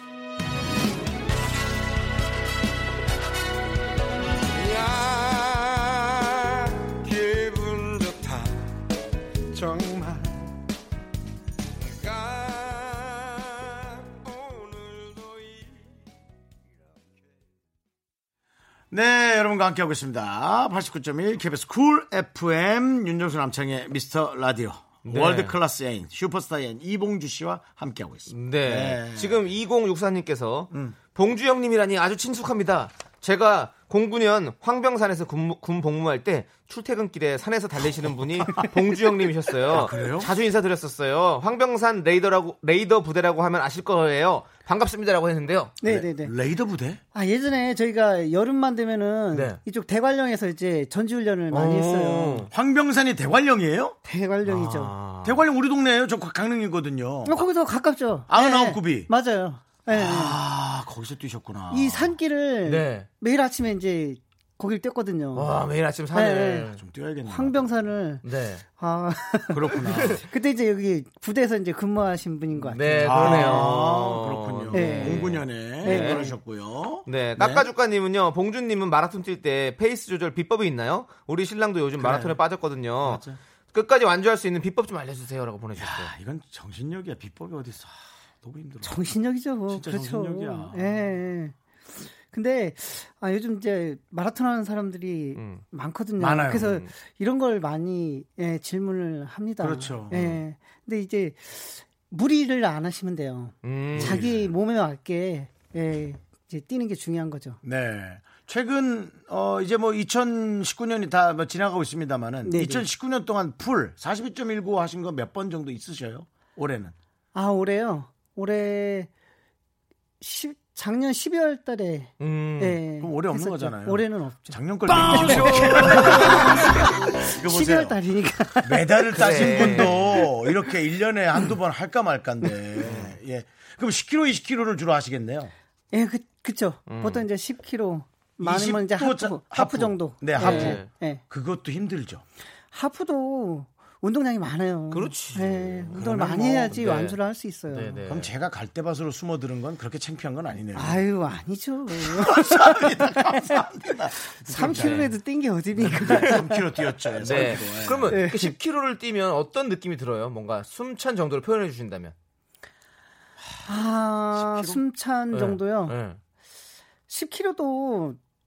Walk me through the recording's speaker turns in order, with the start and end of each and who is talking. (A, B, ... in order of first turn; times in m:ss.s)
0:04.5-0:08.7 A
0:09.5-0:10.5 A
0:11.8-0:15.9 A
0:18.9-0:29.4 B
0:25.0-0:25.5 C
0:28.3-0:45.8 C
0:30.7-0:31.0 B
0:39.7-0:40.3 B
0:45.8-0:46.3 D
0:45.8-0:47.0 B
0:47.1-0:52.5 D
0:49.3-0:49.6 C
0:51.5-0:52.5 C
0:52.5-0:54.0 B
0:54.0-0:54.9 D
0:54.4-0:55.4 C
0:55.2-0:57.4 B
0:57.2-1:00.4 D
0:58.3-0:59.1 B
0:59.9-1:02.2 B
1:01.7-1:05.5 D
1:02.6-1:03.1 C
1:05.3-1:06.8 C
1:06.1-1:06.7 D
1:06.7-1:07.8 B
1:07.2-1:08.2 D
1:08.2-1:08.6 C
1:08.7-1:13.8 D
1:09.5-1:10.2 B
1:09.8-1:10.2 C
1:12.6-1:16.2 C
1:13.0-1:17.7 B
1:14.7-1:16.4 D
1:17.0-1:26.1 C
1:22.0-1:22.4 B
1:23.0-1:23.4 B
1:25.8-1:29.0 B
1:28.8-1:31.5 D
1:29.7-1:31.2 B
1:32.3-1:47.6 D
1:35.4-1:35.6 C
1:36.2-1:36.8 B
1:39.6-1:40.4 B
1:43.6-1:44.2 C
1:43.9-1:44.5 B
1:47.6-1:56.9 B
1:52.4-1:52.8 D
1:57.3-1:59.1 D
2:00.2-2:10.3 D
2:02.2-2:02.8 C
2:03.0-2:08.0 B
2:05.1-2:06.5 C
2:08.6-2:15.5 B
2:09.1-2:10.2 C
2:12.8-2:13.2 C
2:15.9-2:21.2 D
2:16.9-2:17.2 C
2:18.4-2:22.2 B
2:20.4-2:20.9 C
2:22.7-2:28.0 D
2:24.9-2:26.0 C
2:25.9-2:26.8 B
2:26.6-2:27.2 C
2:27.7-2:28.3 C
2:28.1-2:31.0 B
2:30.7-2:33.6 D
2:31.9-2:35.1 B
2:34.4-2:36.6 D
2:34.6-2:35.1 C
2:35.7-2:38.2 B
2:35.9-2:36.4 C
2:37.2-2:42.1 C
2:38.1-2:38.5 D
2:43.7-2:46.0 D
2:44.3-2:44.8 B
2:45.3-2:46.2 C
2:47.1-2:48.2 D